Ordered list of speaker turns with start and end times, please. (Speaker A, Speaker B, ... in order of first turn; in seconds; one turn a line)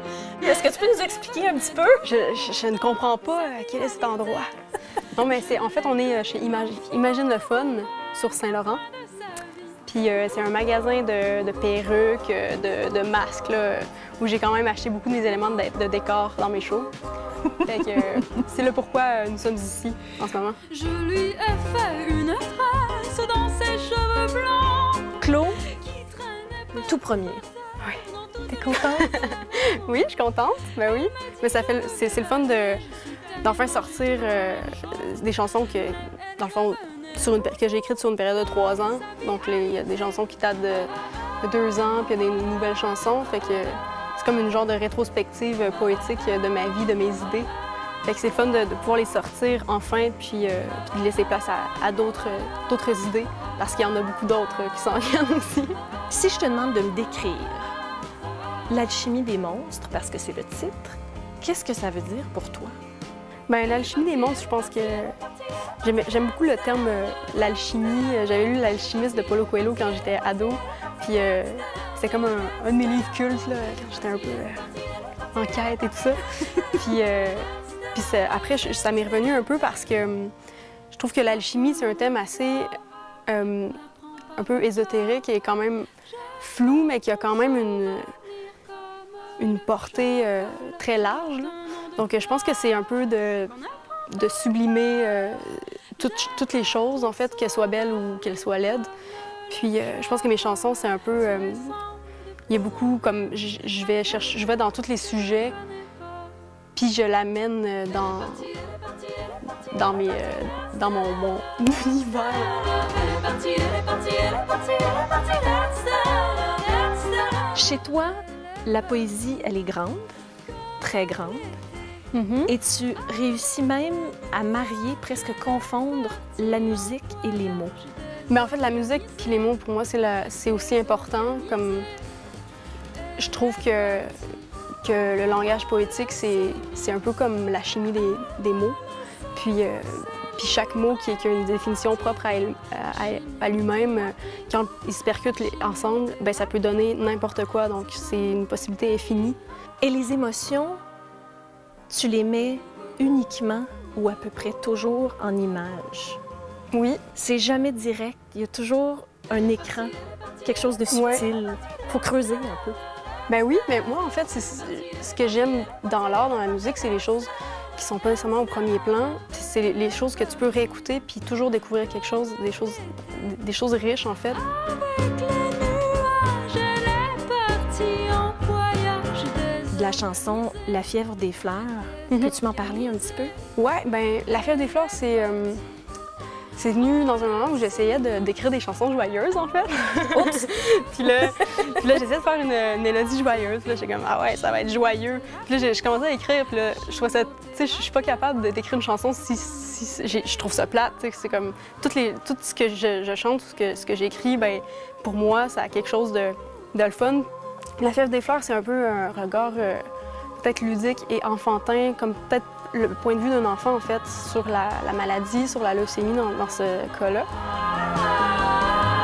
Speaker A: 0.4-2.0
Speaker B: 2.0-4.5
Speaker B: 5.1-8.8
Speaker B: 9.8-16.9
Speaker B: 17.6-20.6
Speaker C: 20.7-25.1
Speaker A: 25.1-25.6
Speaker A: 26.7-27.4
Speaker A: 28.5-29.1
Speaker B: 28.7-32.8
Speaker B: 33.4-40.9
Speaker B: 41.4-47.5
Speaker B: 48.0-55.8
Speaker A: 56.1-57.7
Speaker A: 58.7-62.7
Speaker B: 63.5-65.2
Speaker B: 65.8-74.7
Speaker B: 75.3-80.3
Speaker B: 80.9-82.7
Speaker B: 83.3-83.8
Speaker B: 84.4-88.0
Speaker B: 89.4-93.6
Speaker B: 94.1-98.9
Speaker B: 99.5-101.8
Speaker B: 102.5-105.6
Speaker B: 106.7-108.6
Speaker B: 109.7-112.6
Speaker C: 113.0-117.5
Speaker A: 117.5-118.1
Speaker A: 118.6-120.1
Speaker A: 120.8-121.5
Speaker B: 122.1-122.5
Speaker A: 122.5-127.7
Speaker B: 128.3-131.9
Speaker B: 133.2-134.1
Speaker B: 134.8-138.8
Speaker B: 139.3-149.4
Speaker A: 149.8-150.8
Speaker A: 151.9-156.2
Speaker B: 156.7-157.0
Speaker A: 157.1-162.8
Speaker B: 160.9-161.2
Speaker B: 163.3-174.4
Speaker C: 174.6-179.6
Speaker A: 179.7-183.3
Speaker B: 183.6-185.6
Speaker B: 186.6-209.9
Speaker A: 190.1-190.5
Speaker A: 191.2-191.6
Speaker B: 210.4-217.3